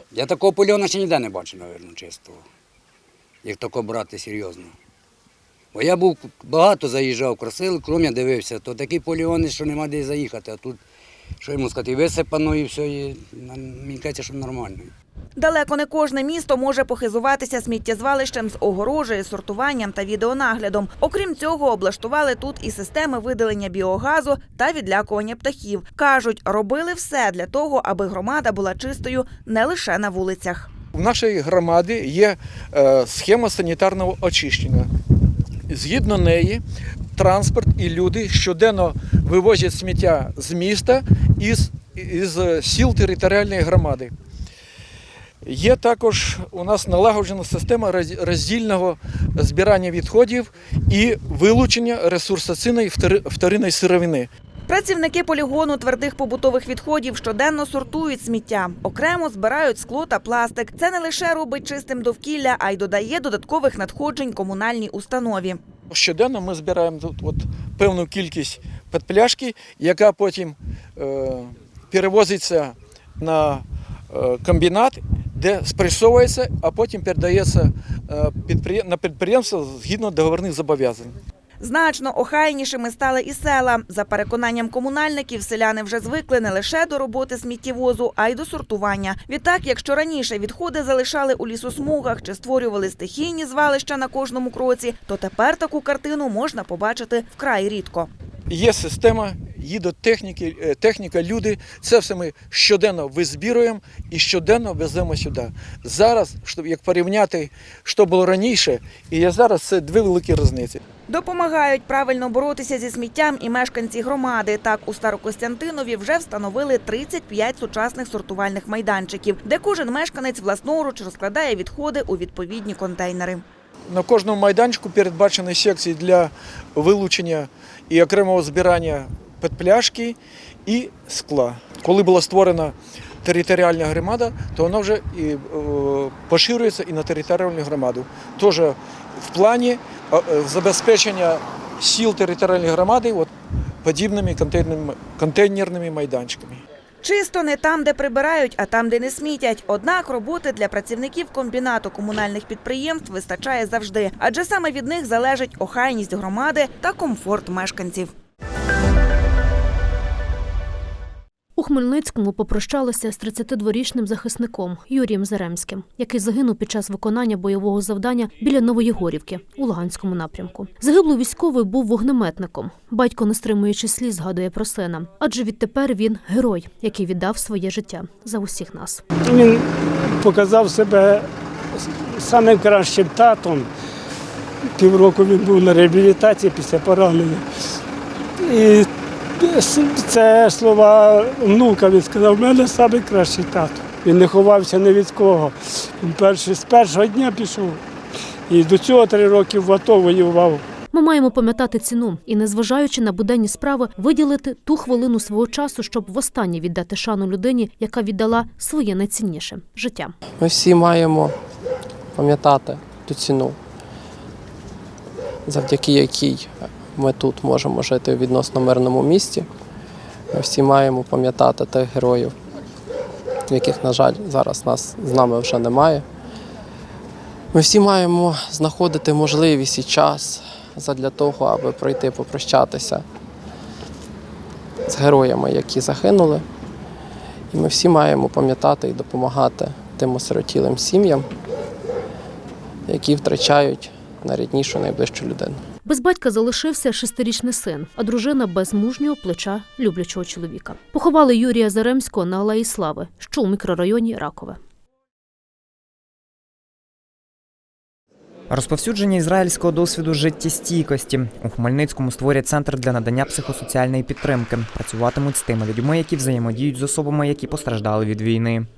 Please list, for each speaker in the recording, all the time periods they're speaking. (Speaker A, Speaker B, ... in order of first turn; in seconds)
Speaker A: 0.1-2.4, 3.4-4.7, 5.7-10.8, 11.4-14.9
Speaker B: 15.4-30.7, 54.7-65.6, 81.6-98.1, 111.1-123.4, 147.0-158.1
Speaker C: 30.9-34.9, 35.7-36.6, 37.1-44.1, 45.4-54.3, 65.9-81.2, 98.5-110.8, 123.9-143.3, 143.8-146.6
Speaker D: 161.6-179.0, 200.9-210.1, 245.8-254.6
Speaker E: 180.2-181.0, 182.2-183.6, 184.8-187.4, 189.7-195.4, 196.0-197.8, 198.5-200.6
Speaker F: 210.4-211.3, 212.1-213.6, 215.4-219.5, 220.3-222.3, 223.5-226.0, 227.5-233.0, 234.9-236.4, 237.5-241.3, 242.9-245.6
Speaker G: 258.5-268.6